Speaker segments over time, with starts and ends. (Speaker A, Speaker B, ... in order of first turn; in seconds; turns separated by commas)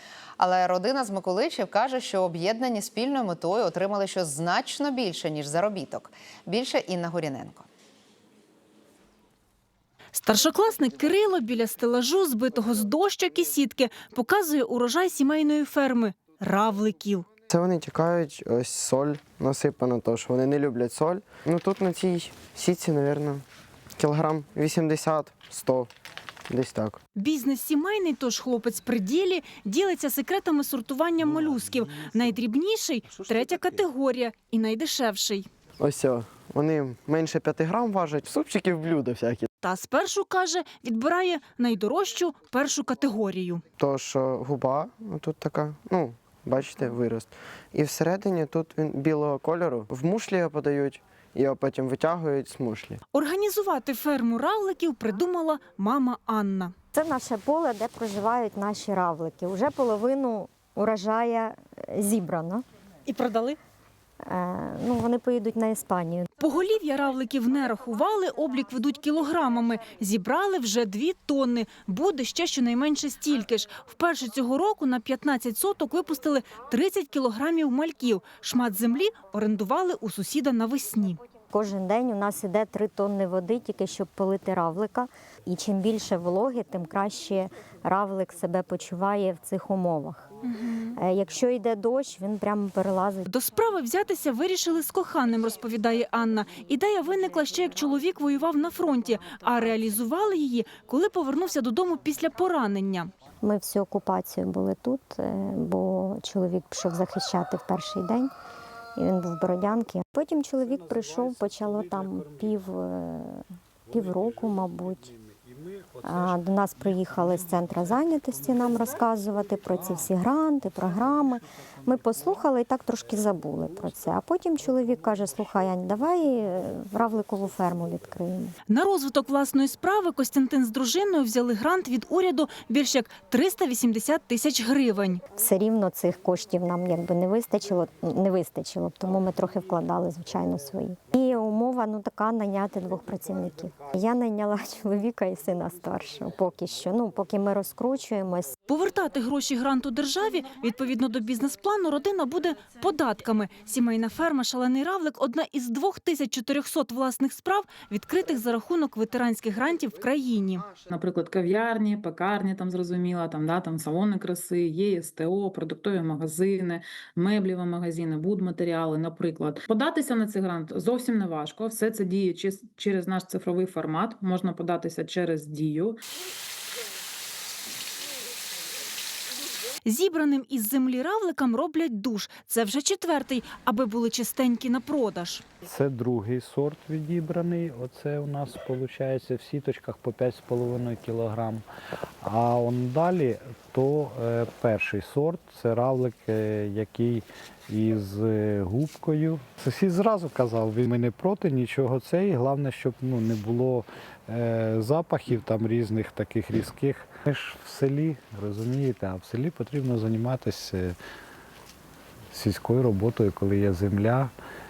Speaker A: 0.4-7.7, Speaker B: 10.1-17.3, Speaker C: 17.5-23.4, Speaker C: 24.0-25.9, Speaker C: 26.5-27.0, Speaker B: 27.1-35.5, Speaker C: 35.8-39.5, Speaker B: 39.6-43.6, Speaker C: 43.8-53.0, Speaker B: 53.1-56.7, Speaker D: 56.9-62.6, Speaker B: 63.0-63.6, Speaker D: 64.3-66.3, Speaker B: 66.4-81.2, Speaker D: 81.5-90.3, Speaker B: 90.4-91.0, Speaker D: 91.0-93.3, Speaker B: 93.3-103.1, Speaker D: 103.4-108.3, Speaker D: 109.0-115.1, Speaker D: 116.0-128.5, Speaker B: 128.7-135.2, Speaker D: 135.3-148.5, Speaker B: 148.7-160.7, Speaker E: 160.9-175.9, Speaker B: 179.8-185.4, Speaker F: 185.6-191.6, Speaker F: 192.2-210.9, Speaker F: 212.3-214.3